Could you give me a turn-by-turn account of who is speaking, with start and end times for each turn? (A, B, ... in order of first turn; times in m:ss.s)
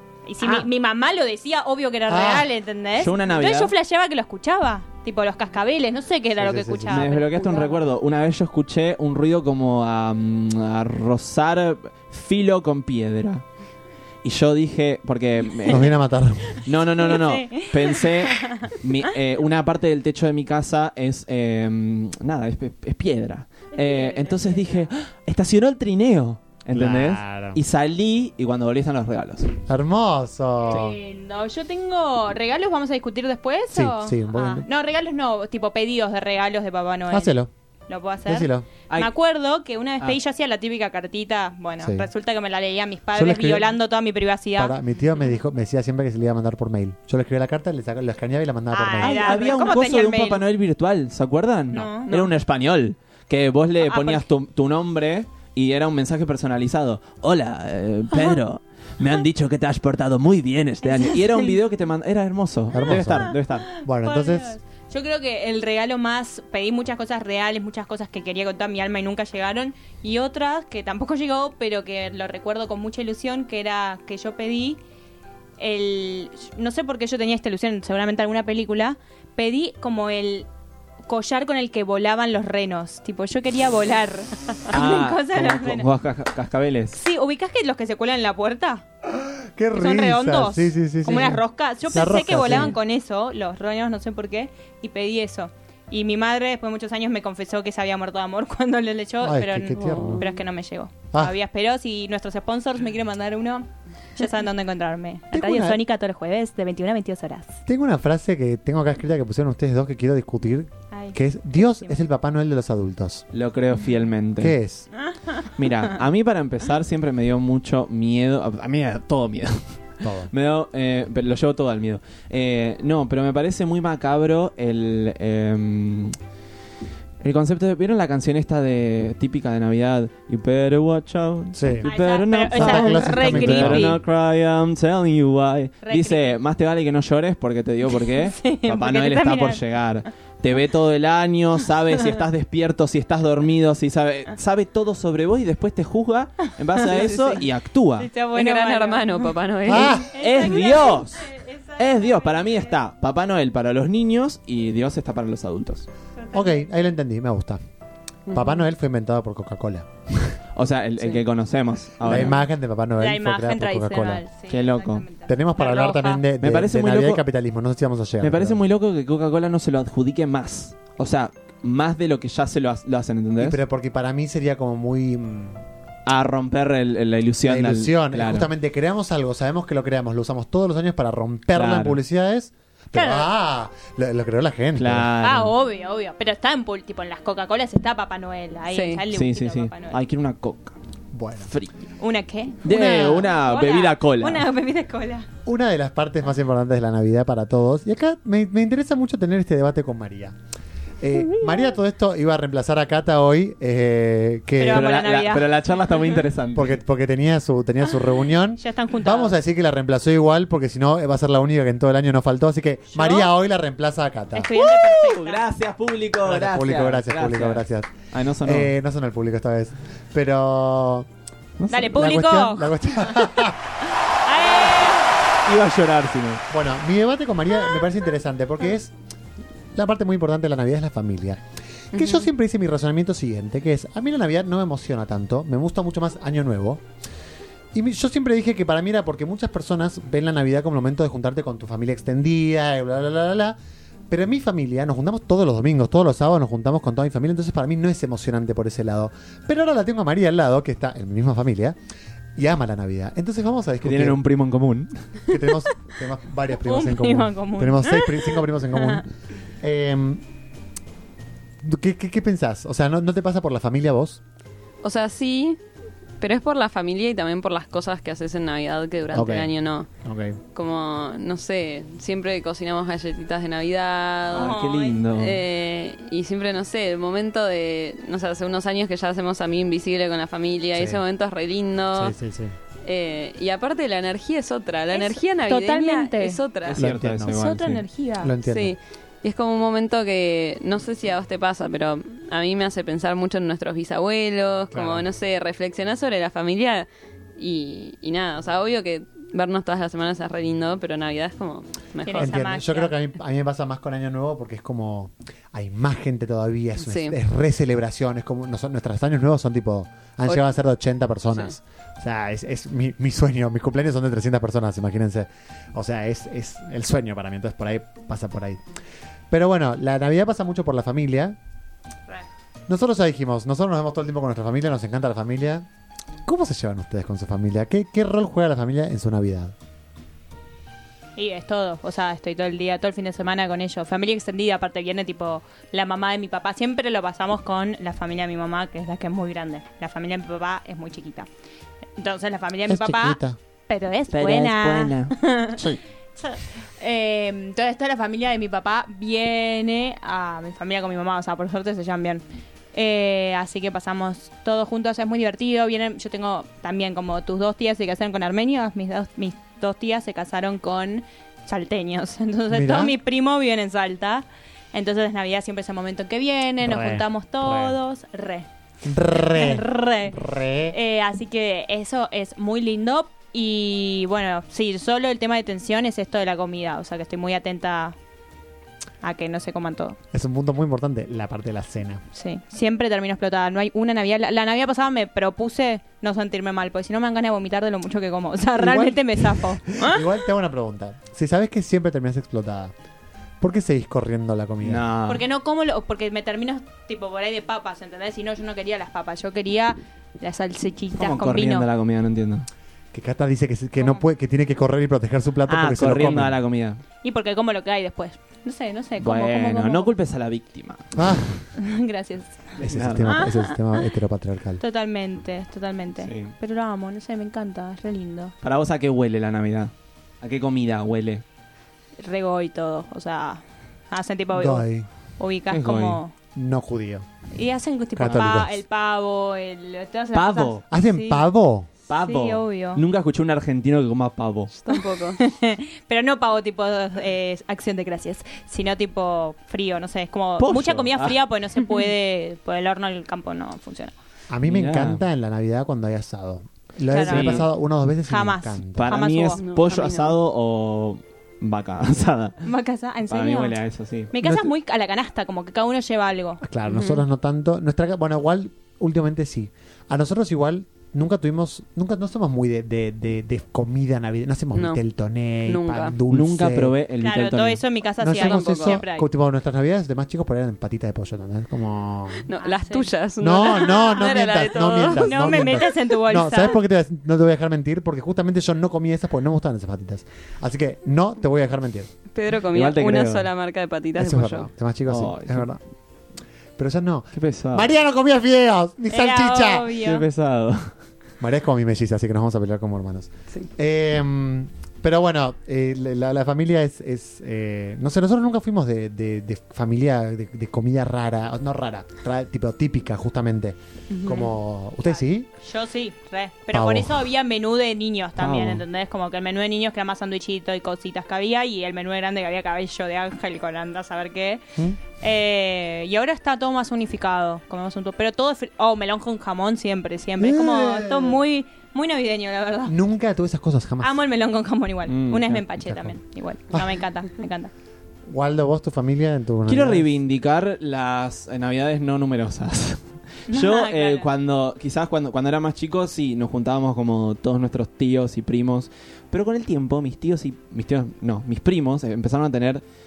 0:00.3-0:07.8 A
0:02.1-0:02.5 B
0:03.0-0:03.7 C
0:06.4-0:07.1 B
0:06.9-0:13.4 C
0:14.2-0:15.9 C
0:15.7-0:16.6 B
0:16.7-0:29.5 C
0:17.0-0:18.7 A
0:23.8-0:24.9 A
0:26.7-0:27.6 B
0:29.7-0:31.0 B
0:30.7-0:37.3 A
0:33.7-0:34.7 B
0:37.1-0:37.5 B
0:37.9-0:44.8 A
0:38.3-0:38.7 B
0:41.8-0:42.1 B
0:43.1-0:43.8 B
0:44.6-0:49.4 B
0:48.7-0:50.4 A
0:49.0-1:03.7 C
0:51.7-0:52.1 A
0:53.8-0:54.3 A
1:00.9-1:01.6 A
1:02.7-1:04.6 B
1:03.8-1:14.8 A
1:15.6-1:20.5 A
1:21.1-1:25.9 A
1:24.7-1:27.0 C
1:26.9-1:28.8 A
1:29.1-1:32.8 B
1:29.7-1:47.6 A
1:39.2-1:40.2 B
1:39.8-1:40.3 D
1:45.3-1:45.8 B
1:47.7-1:53.2 B
1:50.9-1:52.0 A
1:53.3-1:54.6 C
1:54.4-1:54.9 B
1:55.6-1:59.6 C
2:00.0-2:00.3 B
2:00.3-2:06.2 C
2:07.2-2:28.1 C
2:11.5-2:11.9 B
2:11.8-2:14.0 A
2:12.5-2:14.0 B
2:15.8-2:16.4 A
2:17.9-2:19.6 A
2:26.8-2:27.4 A
2:28.0-2:32.8 A
2:28.3-2:30.0 D
2:29.6-2:30.1 B
2:30.2-2:35.9 C
2:36.2-2:36.7 A
2:36.3-2:37.6 B
2:38.3-2:40.4 B
2:40.6-2:42.4 C
2:42.0-2:44.2 B
2:43.0-2:46.2 A
2:44.5-2:45.0 C
2:45.3-2:48.6 B
2:46.4-2:47.2 C
2:48.2-2:53.6 C
2:53.4-2:55.6 B
2:56.1-2:58.5 C
2:57.4-3:05.1 B
3:01.5-3:02.0 C
3:02.9-3:03.3 A
3:04.8-3:05.5 C
3:05.2-3:10.0 A
3:08.7-3:09.0 D
3:09.1-3:10.8 C
3:11.1-3:11.5 B
3:11.5-3:11.7 C
3:12.0-3:15.3 A
3:12.6-3:14.5 C
3:12.7-3:13.3 B
3:15.4-3:20.4 B
3:21.0-3:24.9 B
3:24.6-3:25.6 A
3:24.7-3:26.8 C
3:26.5-3:34.5 B
3:28.6-3:29.4 A
3:32.9-3:33.3 A
3:34.3-3:35.4 A
3:34.6-3:38.7 C
3:36.2-3:37.9 B
3:38.4-3:41.1 B
3:41.6-3:42.0 C
3:41.7-3:42.7 A
3:41.8-3:43.6 B
3:44.2-3:45.1 A
3:45.4-3:46.4 C
3:46.5-3:48.9 B
3:49.8-3:51.4 B
3:51.9-3:56.8 B
3:52.0-3:52.3 D
3:57.7-4:03.6 B
4:04.1-4:11.8 B
4:12.4-4:14.2 B
4:13.8-4:14.9 C
4:15.3-4:19.1 B
4:16.6-4:19.0 A
4:19.6-4:20.2 B
4:21.6-4:24.2 B
4:24.8-4:25.6 D
4:26.2-4:29.9 D
4:29.1-4:29.5 B
4:30.0-4:30.4 B
4:30.5-4:34.5 D
4:34.3-4:35.0 A
4:34.3-4:35.4 C
4:35.2-4:42.2 D
4:40.7-4:41.0 B
4:41.9-4:42.5 B
4:42.8-4:46.8 D
4:44.9-4:46.4 A
4:46.6-4:47.8 C
4:46.8-4:47.5 B
4:47.2-4:48.3 A
4:48.2-4:48.8 B
4:48.4-5:02.4 D
4:54.7-4:55.0 B
5:02.0-5:03.0 A
5:02.2-5:18.6 B
5:06.8-5:07.2 D
5:19.3-5:21.4 B
5:22.7-5:25.7 B
5:26.3-5:29.6 B
5:31.2-5:41.3 A
5:42.0-5:45.7 A
5:42.7-5:43.4 B
5:44.1-5:45.2 C
5:46.2-6:08.5 A
6:02.5-6:03.0 B
6:06.6-6:07.8 B
6:08.8-6:10.8 B
6:09.1-6:10.2 A
6:10.7-6:18.0 A
6:19.0-6:20.0 A
6:20.1-6:22.0 B
6:22.1-6:30.0 A
6:28.6-6:32.7 B
6:33.4-6:34.8 B
6:34.6-6:35.2 C
6:35.1-6:41.7 A
6:41.0-6:42.5 C
6:42.9-6:46.4 B
6:43.8-6:44.1 A
6:45.5-6:46.8 C
6:47.0-6:49.9 A
6:49.0-6:51.0 C
6:51.0-6:51.4 B
6:51.6-6:53.6 A
6:52.6-6:54.6 B
6:52.6-6:53.2 C
6:54.6-6:58.3 A
6:56.0-6:56.3 C
6:58.4-7:01.2 C
7:02.0-7:04.7 A
7:04.3-7:04.9 B
7:05.2-7:06.1 A
7:05.5-7:06.0 C
7:06.4-7:07.1 B
7:07.4-7:11.3 A
7:08.0-7:08.6 B
7:10.1-7:10.6 C
7:10.7-7:11.7 B
7:11.9-7:14.5 C
7:11.9-7:12.8 A
7:14.5-7:15.2 D
7:14.7-7:24.0 A
7:20.4-7:21.2 C
7:24.3-7:28.9 B
7:24.5-7:25.0 C
7:26.9-7:27.5 A
7:27.1-7:27.5 C
7:28.1-7:29.4 A
7:28.8-7:32.4 C
7:29.4-7:30.2 D
7:32.4-7:33.6 A
7:33.1-7:34.1 C
7:34.1-7:36.4 A
7:34.2-7:34.5 B
7:36.4-7:46.8 B
7:36.7-7:37.0 D
7:44.6-7:44.8 D
7:45.5-7:46.0 D
7:46.1-7:47.6 C
7:47.0-7:49.1 A
7:48.0-7:52.3 B
7:48.1-7:48.8 D
7:52.2-7:55.6 D
7:52.4-7:52.9 A
7:53.2-8:01.9 B
7:53.6-7:54.0 A
7:55.0-7:56.6 A
8:02.1-8:04.5 D
8:02.5-8:03.3 C
8:04.0-8:05.6 B
8:04.9-8:05.5 C
8:06.6-8:09.8 B
8:07.2-8:07.7 C
8:08.9-8:10.0 A
8:09.8-8:10.7 C
8:11.2-8:25.3 B
8:23.9-8:24.4 A
8:25.4-8:34.4 A
8:26.5-8:27.0 B
8:28.2-8:28.6 C
8:35.0-8:42.8 A
8:40.2-8:41.2 B
8:42.7-8:44.0 B
8:43.8-8:47.5 A
8:44.9-8:45.4 C
8:45.7-8:46.0 B
8:48.1-8:50.0 B
8:49.5-9:02.6 C
8:53.3-8:54.1 A